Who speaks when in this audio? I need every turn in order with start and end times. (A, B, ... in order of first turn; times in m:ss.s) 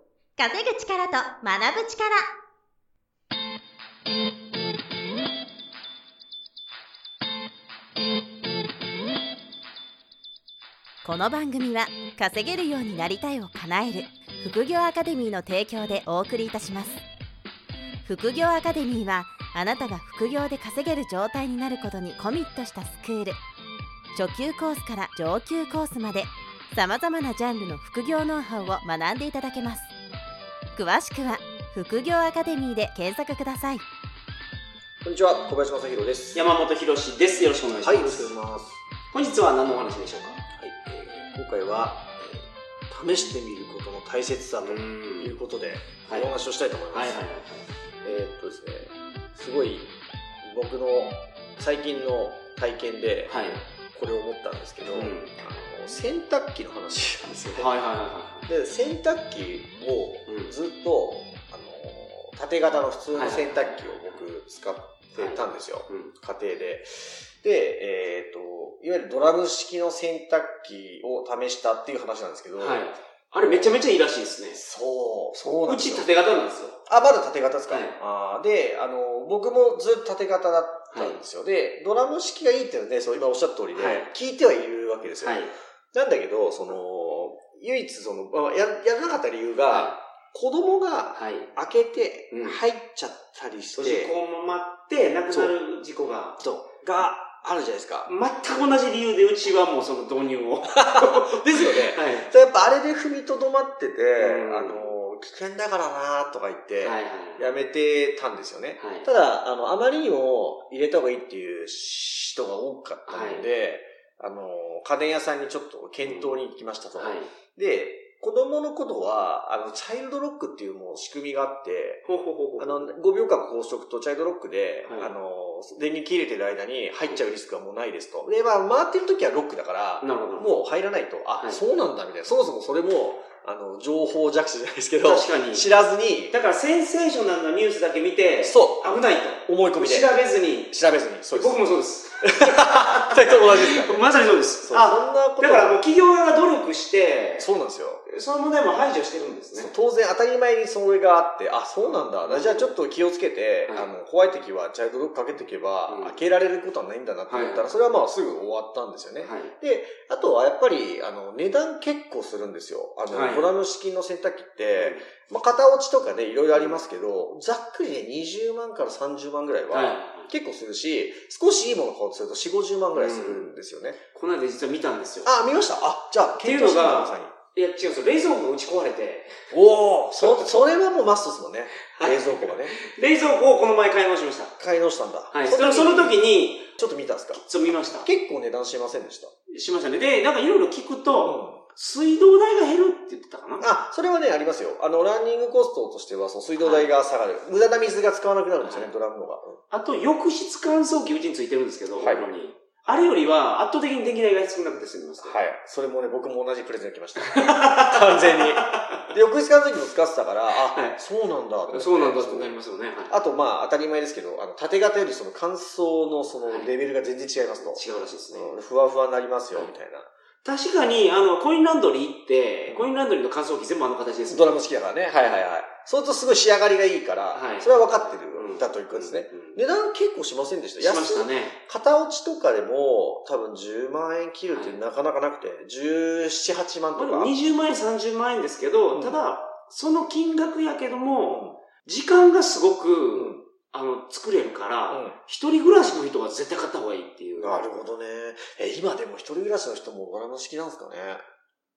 0:00.4-0:02.2 A
0:11.0-0:17.0 A
0:18.0-0:23.4 A
0:24.1-0:29.9 A
0:30.8-0:33.8 A
0:35.0-0:36.5 B
0:36.3-0:38.3 C
0:37.8-0:38.8 B
0:39.1-0:40.8 C
0:40.9-0:47.2 B
0:44.6-0:45.4 C
0:46.0-0:46.3 C
0:46.9-0:47.6 C
0:48.0-0:49.9 B
0:50.4-0:57.8 B
0:53.2-0:53.6 C
0:54.9-0:55.3 C
0:57.5-0:58.5 C
0:58.5-1:13.9 B
1:00.3-1:00.5 C
1:03.1-1:04.2 C
1:05.2-1:06.1 C
1:12.6-1:14.6 C
1:14.5-1:16.1 B
1:15.6-1:16.8 C
1:16.8-1:34.2 B
1:17.7-1:18.0 C
1:20.9-1:21.2 C
1:23.7-1:24.1 C
1:25.2-1:25.5 C
1:29.7-1:30.0 C
1:31.1-1:31.5 C
1:32.3-1:32.6 C
1:33.7-1:36.4 C
1:36.4-1:38.1 B
1:38.0-1:42.3 C
1:40.6-2:02.0 B
1:44.2-1:44.9 C
1:46.8-1:47.5 C
1:48.8-1:49.1 C
1:53.1-1:53.5 C
1:56.0-1:56.4 C
1:57.0-1:57.3 C
2:02.0-2:03.0 C
2:02.6-2:16.3 B
2:04.8-2:05.1 C
2:10.0-2:10.6 C
2:15.0-2:15.7 C
2:16.3-2:20.8 C
2:18.4-2:24.1 B
2:21.3-2:27.5 C
2:24.6-2:25.8 B
2:27.4-2:28.0 B
2:28.0-2:29.7 C
2:29.5-2:54.0 B
2:31.8-2:32.7 C
2:35.9-2:36.2 C
2:37.3-2:37.7 C
2:39.2-2:39.5 C
2:43.1-2:43.5 C
2:44.8-2:45.0 C
2:46.5-2:46.8 C
2:49.7-2:50.3 C
2:52.9-2:53.5 C
2:54.1-2:55.3 C
2:55.2-2:57.3 B
2:56.4-2:59.4 C
2:59.5-3:02.7 B
3:00.1-3:00.7 C
3:01.9-3:04.6 C
3:04.6-3:06.2 B
3:05.3-3:06.7 C
3:06.7-3:07.4 B
3:07.3-3:08.1 C
3:07.9-3:09.3 B
3:09.5-3:13.7 C
3:11.2-3:11.6 B
3:13.6-3:19.6 B
3:16.6-3:16.9 C
3:18.6-3:18.9 C
3:19.7-3:25.4 C
3:22.0-3:22.3 B
3:25.2-3:40.1 B
3:27.2-3:29.1 C
3:30.5-3:31.0 C
3:31.7-3:33.2 C
3:36.4-3:36.7 C
3:37.6-3:38.5 C
3:40.4-3:45.5 C
3:42.7-3:43.0 B
3:44.3-3:57.3 B
3:47.3-3:49.6 C
3:50.8-3:51.6 C
3:54.5-3:54.8 C
3:56.9-4:07.7 C
3:58.9-3:59.2 B
4:01.2-4:01.6 B
4:03.1-4:03.4 B
4:04.9-4:05.2 B
4:07.4-4:11.2 B